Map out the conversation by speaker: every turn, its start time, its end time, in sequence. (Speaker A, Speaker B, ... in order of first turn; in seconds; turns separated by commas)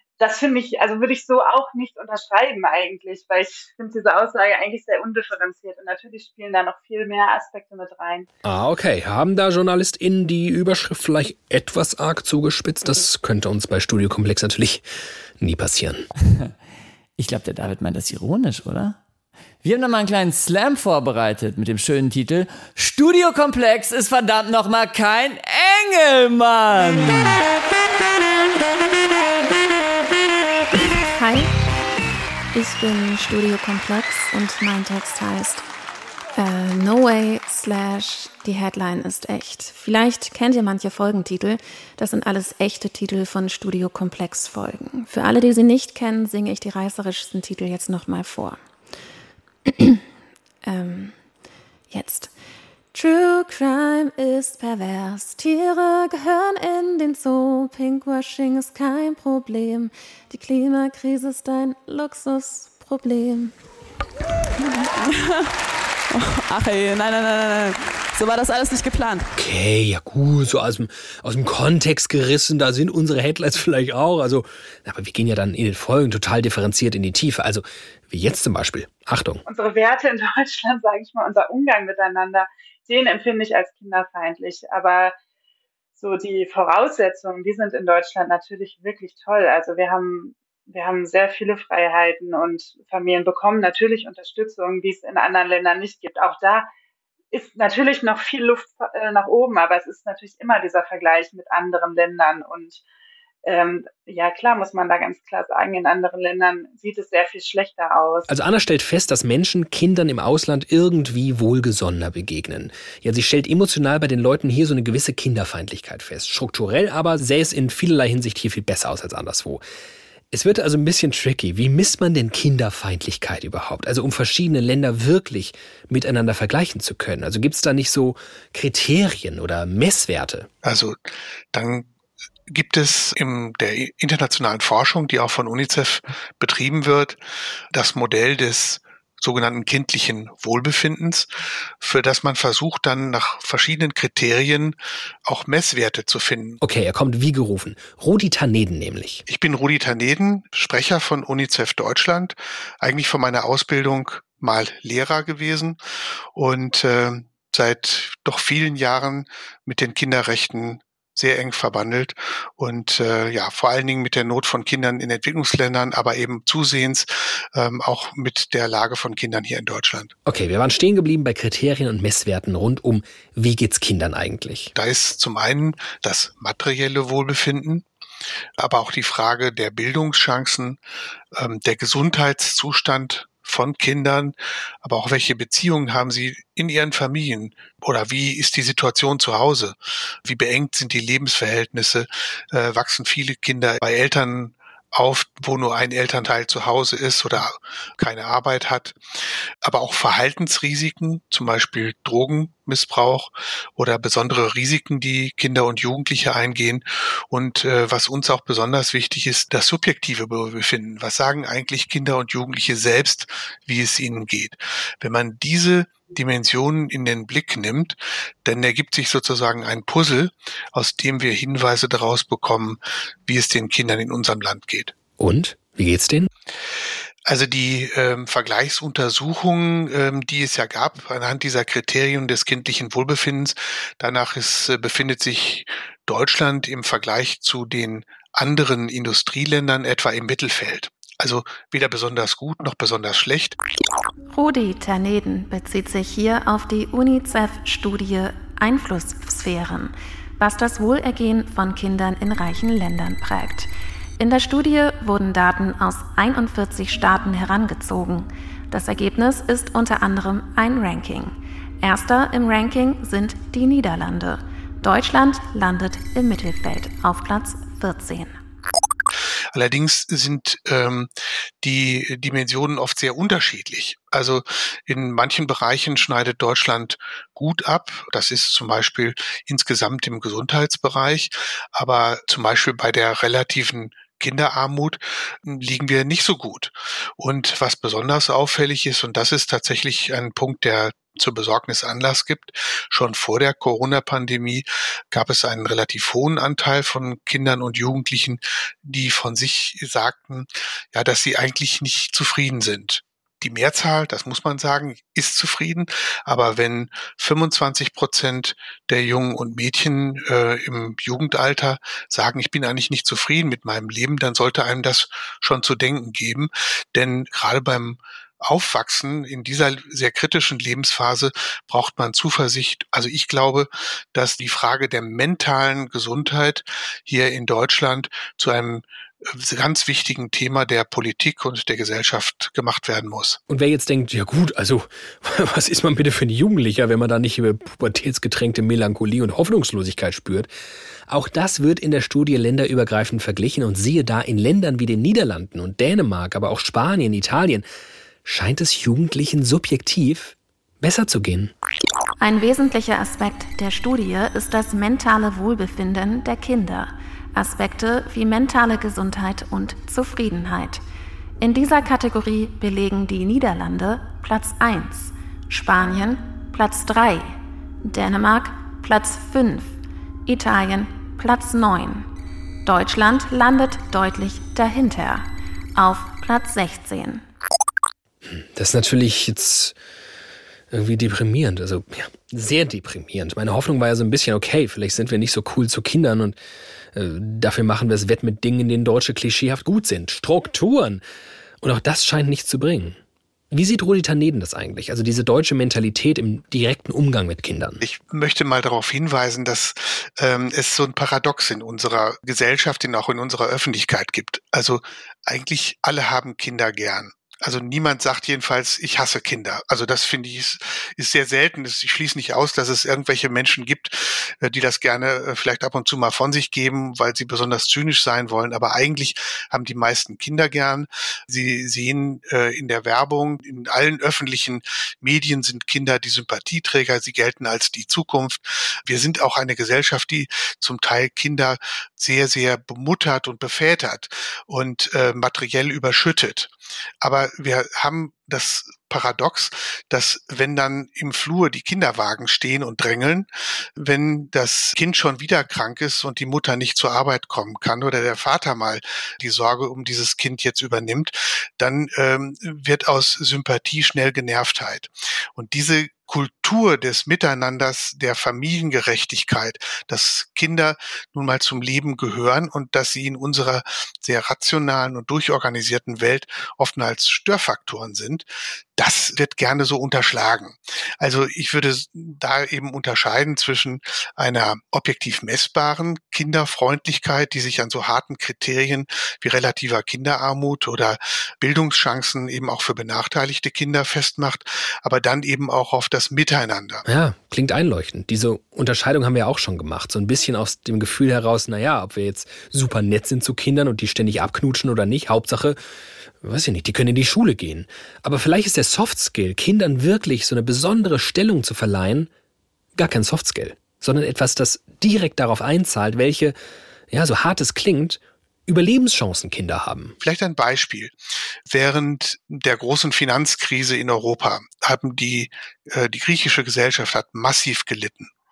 Speaker A: 0.2-8.3, Speaker B: 8.4-14.8, Speaker B: 15.4-16.1, Speaker C: 17.2-19.0, Speaker C: 19.6-27.4, Speaker D: 31.0-31.5, Speaker D: 32.5-35.6, Speaker D: 36.4-48.6, Speaker D: 49.7-50.0, Speaker D: 50.6-51.2, Speaker D: 51.9-52.3, Speaker D: 52.9-63.5, Speaker E: 64.6-65.5, Speaker E: 66.1-69.3, Speaker B: 69.3-79.4, Speaker A: 79.5-85.1, Speaker A: 86.0-96.7, Speaker A: 97.3-102.8, Speaker A: 103.4-108.3, Speaker B: 108.3-119.6, Speaker B: 120.3-130.5, Speaker F: 130.6-131.9, Speaker F: 132.5-137.2, Speaker F: 137.7-141.3, Speaker F: 141.8-146.6, Speaker B: 146.6-149.2, Speaker F: 149.3-155.8, Speaker F: 156.3-170.1, Speaker B: 170.2-174.7, Speaker F: 174.7-177.8, Speaker F: 178.6-180.8, Speaker F: 181.3-199.0, Speaker F: 199.6-224.9, Speaker B: 225.2-226.3, Speaker F: 227.2-243.6, Speaker D: 244.3-268.4, Speaker F: 269.5-333.4, Speaker B: 333.5-340.5, Speaker B: 341.1-347.6, Speaker B: 348.2-351.5, Speaker D: 352.2-360.8, Speaker D: 361.4-372.1, Speaker D: 372.6-377.2, Speaker B: 378.3-379.7, Speaker B: 380.7-386.4, Speaker B: 386.9-391.0, Speaker B: 391.6-393.0, Speaker B: 393.5-397.8, Speaker F: 397.8-468.2, Speaker F: 468.8-486.8, Speaker B: 486.9-495.6, Speaker B: 496.2-502.1, Speaker B: 502.8-506.4, Speaker B: 506.9-509.9, Speaker F: 510.0-510.9, Speaker F: 511.5-518.1